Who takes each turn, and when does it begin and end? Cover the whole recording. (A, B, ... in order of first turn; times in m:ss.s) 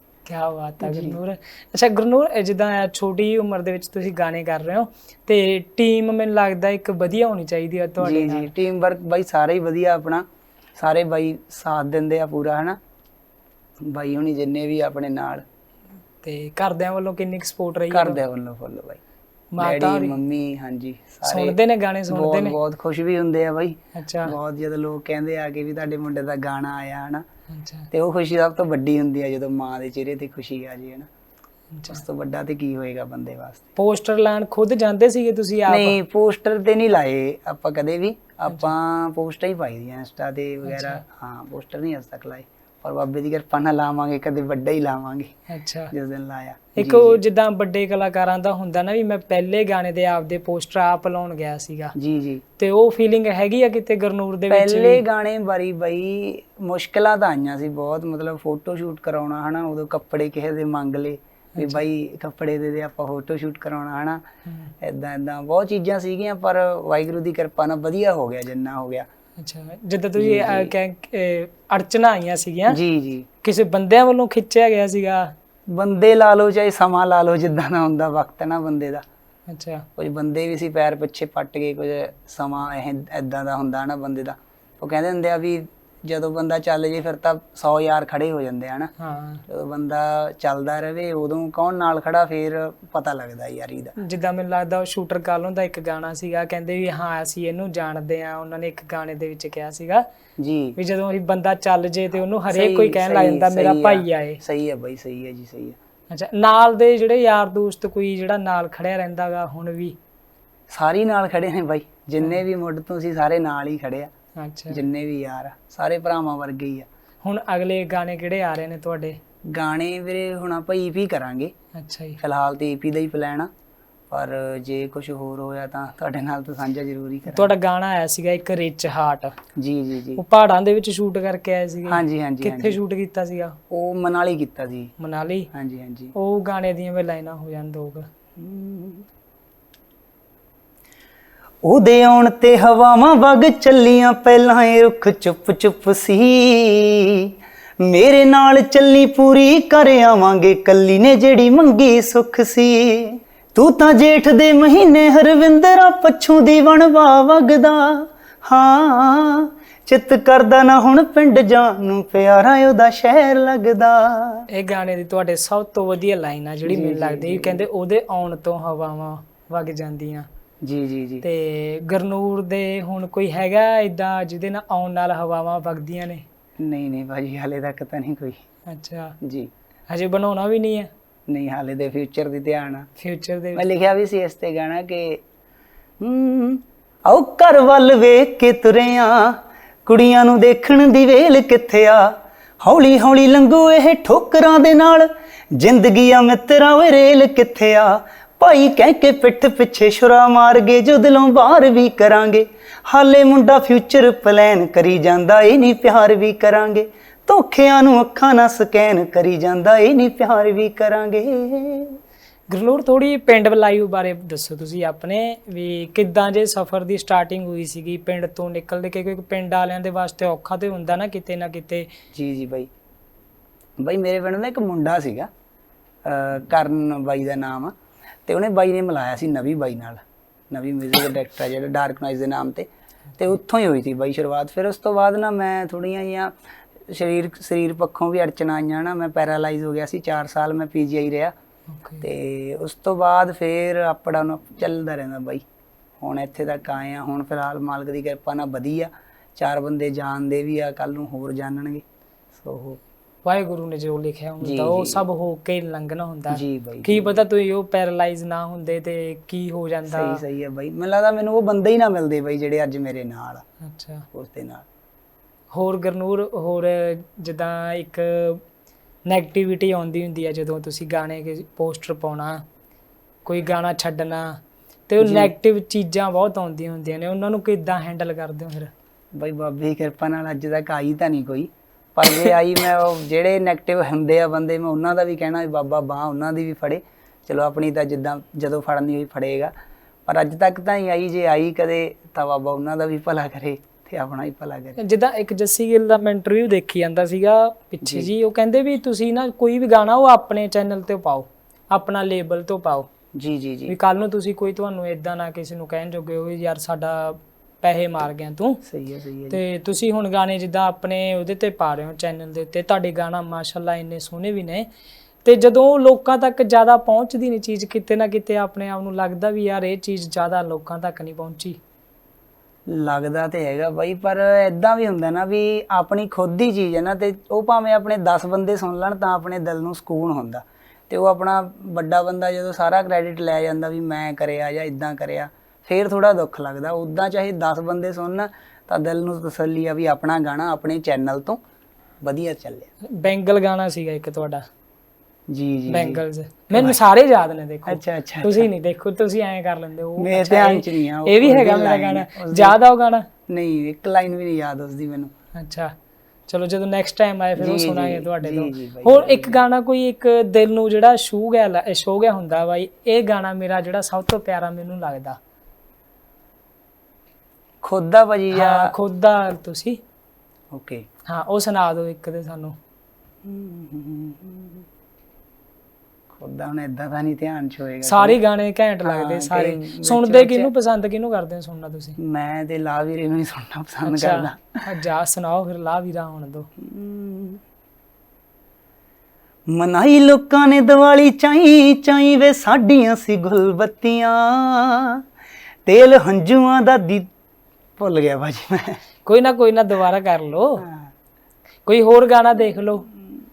0:00.3-0:08.5 A
0:00.8-0:01.2 B
0:08.0-0:12.8 B
0:13.8-0:15.4 B
0:16.2-0:18.2 A
0:17.9-0:19.0 B
0:19.5-0:20.2 A
0:19.6-0:21.6 B
0:21.2-0:22.6 A
0:22.1-0:27.2 B
0:24.0-0:24.4 A
0:27.5-0:27.9 A
0:27.9-0:31.1 B
0:31.7-0:32.0 A
0:31.9-0:33.6 B
0:33.8-0:36.0 A
0:35.7-0:45.3 B
0:40.6-0:41.0 A
0:45.5-0:45.9 A
0:45.9-0:47.2 B
0:46.8-0:52.0 A
0:52.0-0:52.4 B
0:52.6-0:55.0 A
0:54.5-1:04.2 B
1:01.6-1:01.8 A
1:04.5-1:04.7 A
1:04.8-1:09.1 B
1:09.4-1:12.8 A
1:10.2-1:10.7 B
1:12.7-1:13.3 B
1:13.4-1:15.3 A
1:15.7-1:19.0 B
1:19.5-1:19.9 A
1:20.0-1:28.9 B
1:29.0-1:29.4 A
1:29.5-1:34.0 B
1:34.0-1:40.0 A
1:40.4-1:40.8 B
1:40.8-1:44.4 A
1:42.5-1:45.8 B
1:46.1-1:50.0 A
1:50.7-1:54.1 B
1:54.4-1:54.8 A
1:54.7-1:56.9 B
1:57.2-1:59.2 A
1:59.5-2:01.5 B
2:01.8-2:02.2 A
2:02.2-2:03.5 B
2:04.1-2:07.5 B
2:07.3-2:09.4 A
2:09.6-2:10.2 B
2:10.2-2:13.6 A
2:11.9-2:12.8 B
2:13.7-2:14.9 B
2:15.0-2:15.5 A
2:15.5-2:16.1 B
2:16.1-2:18.1 A
2:18.4-2:19.1 B
2:21.6-2:44.5 B
2:44.5-2:50.3 A
2:46.7-2:47.6 B
2:50.6-2:51.2 B
2:51.2-2:56.2 A
2:56.6-2:58.4 B
2:58.7-2:59.2 A
2:59.2-2:59.5 B
2:59.9-3:00.9 A
3:01.3-3:02.9 B
3:03.0-3:03.6 A
3:03.6-3:05.2 B
3:06.0-3:32.0 B
3:32.5-3:41.9 A
3:42.1-3:42.7 B
3:43.8-3:45.3 B
3:46.0-3:47.7 B
3:48.3-3:56.3 B
3:56.9-4:01.3 B
4:01.7-4:02.1 A
4:02.0-4:05.4 B
4:06.0-4:11.8 B
4:12.4-4:12.8 B
4:13.2-4:20.2 A
4:14.4-4:15.0 B
4:16.3-4:17.2 B
4:19.9-4:23.4 B
4:23.6-4:24.1 A
4:24.1-4:24.7 B
4:25.5-4:28.4 A
4:29.1-4:32.4 A
4:33.2-4:38.7 A
4:35.0-4:35.3 B
4:39.2-4:49.5 B
4:50.1-4:54.8 B
4:54.8-5:02.9 A
4:57.8-4:58.1 B
5:03.2-5:03.8 B
5:03.7-5:08.6 A
5:08.7-5:09.4 B
5:09.3-5:14.7 A
5:15.2-5:21.6 A
5:22.7-5:41.4 B
5:42.0-5:42.7 B
5:42.8-5:44.4 A
5:45.3-5:46.0 B
5:45.7-5:53.1 A
5:46.5-5:46.8 B
5:47.7-5:48.5 B
5:50.0-5:52.6 B
5:53.3-5:55.1 B
5:55.4-5:55.7 A
5:56.3-6:05.2 A
5:57.4-5:59.4 B
6:07.6-6:08.7 B
6:08.3-6:09.8 A
6:10.5-6:10.8 B
6:11.1-6:12.6 A
6:13.2-6:14.6 B
6:16.1-6:18.2 B
6:17.8-6:22.0 A
6:18.8-6:20.5 B
6:22.0-6:24.6 B
6:23.8-6:26.5 A
6:26.6-6:27.4 B
6:29.5-6:35.0 B
6:35.7-6:37.1 B
6:37.8-6:38.8 B
6:39.1-6:40.6 A
6:40.6-6:40.9 B
6:41.7-6:42.8 A